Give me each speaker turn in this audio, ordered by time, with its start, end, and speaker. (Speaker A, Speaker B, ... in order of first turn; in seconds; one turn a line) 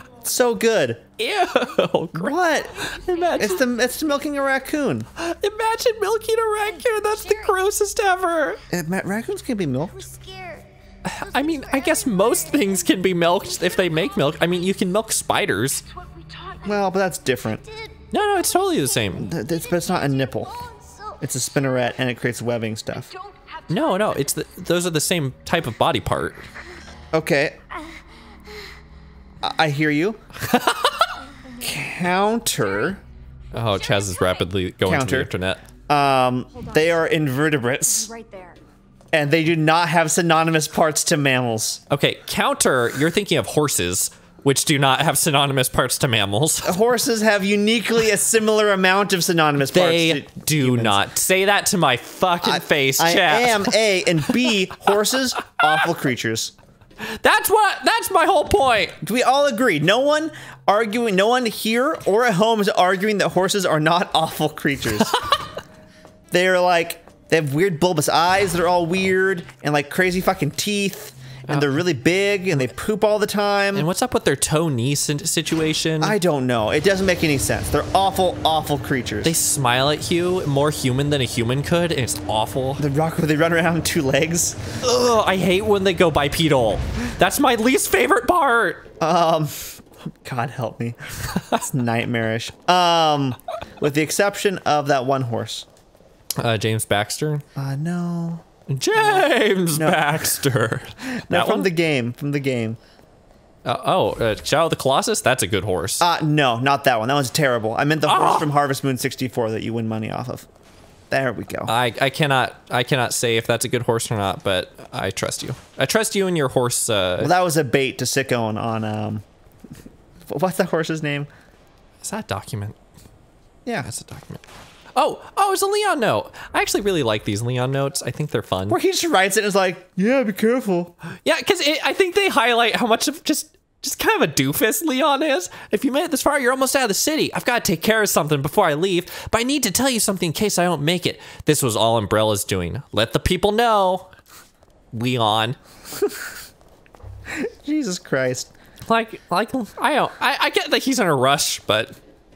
Speaker A: 0.2-1.0
Speaker B: 1.2-3.6
Speaker A: 2.1-5.1
Speaker C: 2.5-4.2
Speaker B: 5.2-8.6
Speaker C: 6.6-7.6
Speaker A: 8.7-10.1
Speaker C: 9.9-14.8
Speaker B: 11.1-15.8
Speaker C: 15.8-22.0
Speaker A: 16.6-17.6
Speaker B: 18.1-19.3
Speaker A: 19.2-20.5
Speaker A: 21.2-23.1
Speaker C: 23.1-24.4
Speaker B: 23.7-26.5
Speaker A: 27.1-27.6
Speaker C: 27.7-28.7
Speaker A: 29.4-30.2
Speaker B: 30.4-31.1
Speaker C: 31.4-33.0
Speaker A: 31.6-33.0
Speaker B: 33.5-35.6
Speaker C: 33.7-34.5
Speaker A: 34.8-35.3
Speaker A: 35.9-38.1
Speaker C: 36.5-37.2
Speaker C: 37.8-38.6
Speaker A: 39.1-41.8
Speaker B: 41.9-46.8
Speaker A: 46.6-51.0
Speaker B: 49.7-54.5
Speaker A: 52.4-56.5
Speaker B: 57.0-59.0
Speaker A: 59.0-65.1
Speaker B: 65.1-65.4
Speaker A: 66.3-73.9
Speaker B: 71.5-71.8
Speaker B: 73.7-76.2
Speaker A: 76.0-79.4
Speaker B: 79.2-82.8
Speaker A: 82.8-84.6
Speaker B: 84.8-88.9
Speaker A: 89.0-95.7
Speaker B: 91.3-91.6
Speaker B: 96.4-97.5
Speaker A: 97.5-98.5
Speaker B: 98.7-101.7
Speaker A: 99.7-100.2
Speaker A: 101.0-102.8
Speaker B: 103.7-106.0
Speaker A: 106.0-110.5
Speaker B: 108.0-108.5
Speaker A: 111.1-111.7
Speaker B: 111.7-117.3
Speaker A: 117.2-119.2
Speaker A: 120.3-121.3
Speaker B: 122.0-122.8
Speaker B: 123.8-124.4
Speaker B: 125.0-128.8
Speaker A: 128.7-130.9
Speaker B: 131.2-144.1
Speaker B: 144.9-145.6
Speaker A: 147.3-148.5
Speaker B: 148.9-152.0